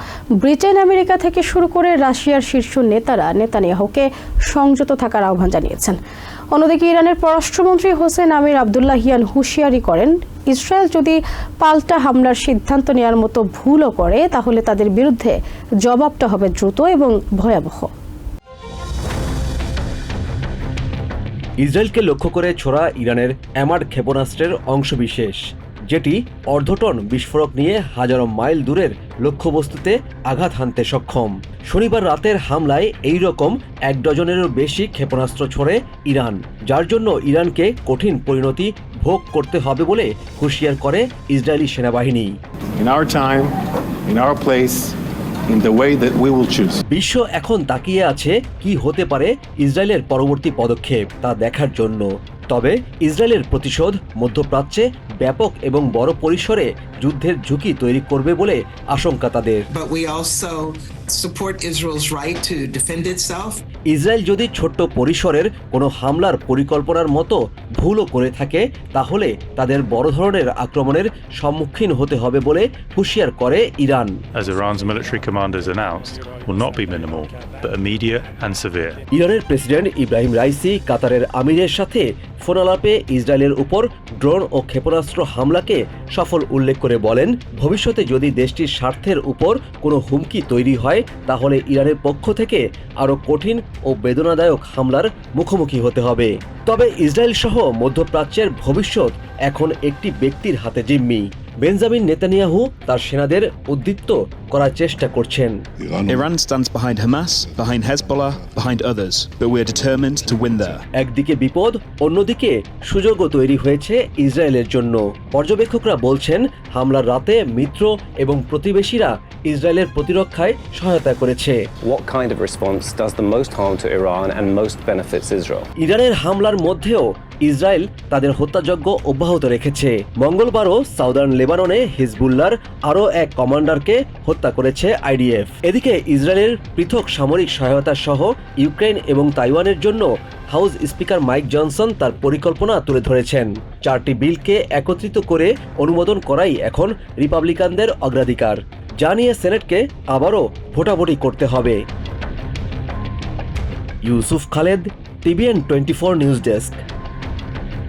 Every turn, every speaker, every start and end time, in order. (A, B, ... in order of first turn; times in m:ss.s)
0:00.4-0:06.0 A
0:06.5-0:17.9 A
0:21.6-0:42.3 B
0:42.8-0:43.6 C
0:44.1-0:45.0 C
0:45.5-0:46.8 C
0:46.9-0:59.6 B
0:59.7-1:03.6 D
1:03.9-1:14.2 B
1:14.4-1:19.0 E
1:19.1-1:45.6 B
1:46.0-1:50.8 F
1:51.0-2:01.6 B
2:01.8-2:05.6 G
2:05.8-2:31.8 B
2:34.1-2:36.8 B